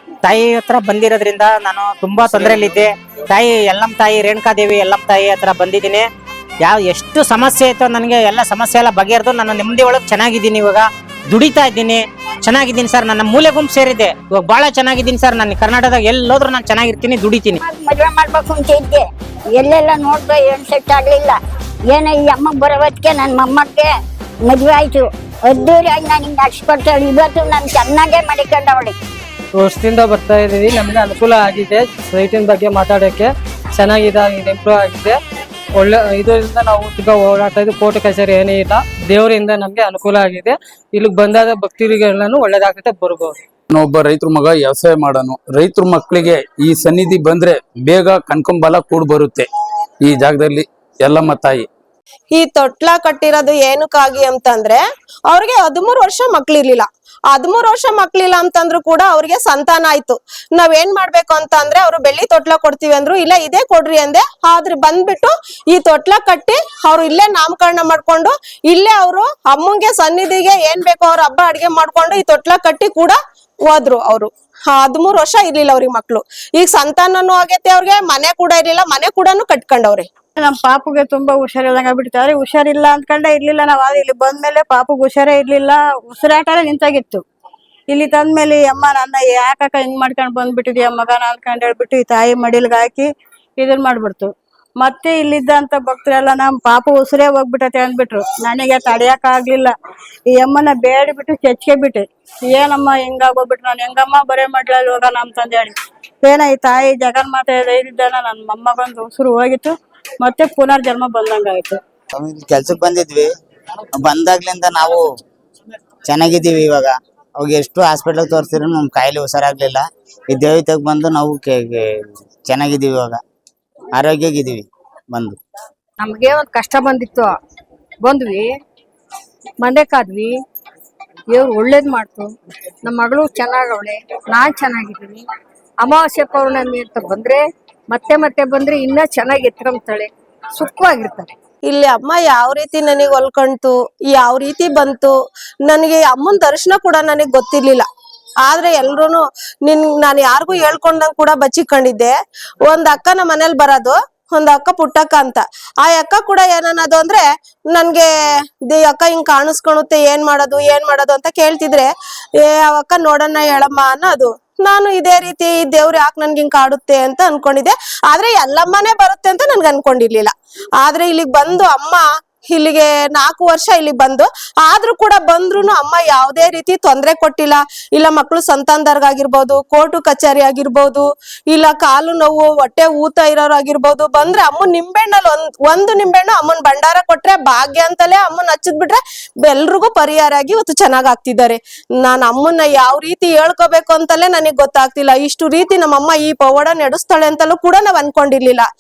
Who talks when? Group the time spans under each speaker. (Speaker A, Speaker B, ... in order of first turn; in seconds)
Speaker A: 0.2-6.0, 6.6-17.6
Speaker B: 17.6-21.4, 21.9-29.0, 138.1-138.4
Speaker C: 29.5-35.2, 35.8-43.3
Speaker D: 43.7-49.5, 50.0-51.7
Speaker E: 52.3-80.1, 141.7-145.1, 145.7-147.9, 148.4-152.1, 152.7-198.7
Speaker F: 80.4-87.2, 87.9-99.7, 100.3-111.8
Speaker G: 112.1-113.3, 114.0-115.0, 116.1-123.2, 124.0-125.4
Speaker H: 126.0-127.3, 128.1-128.4, 129.6-130.3, 131.4-132.2, 132.9-135.2, 136.0-137.4, 138.4-140.1, 140.6-141.3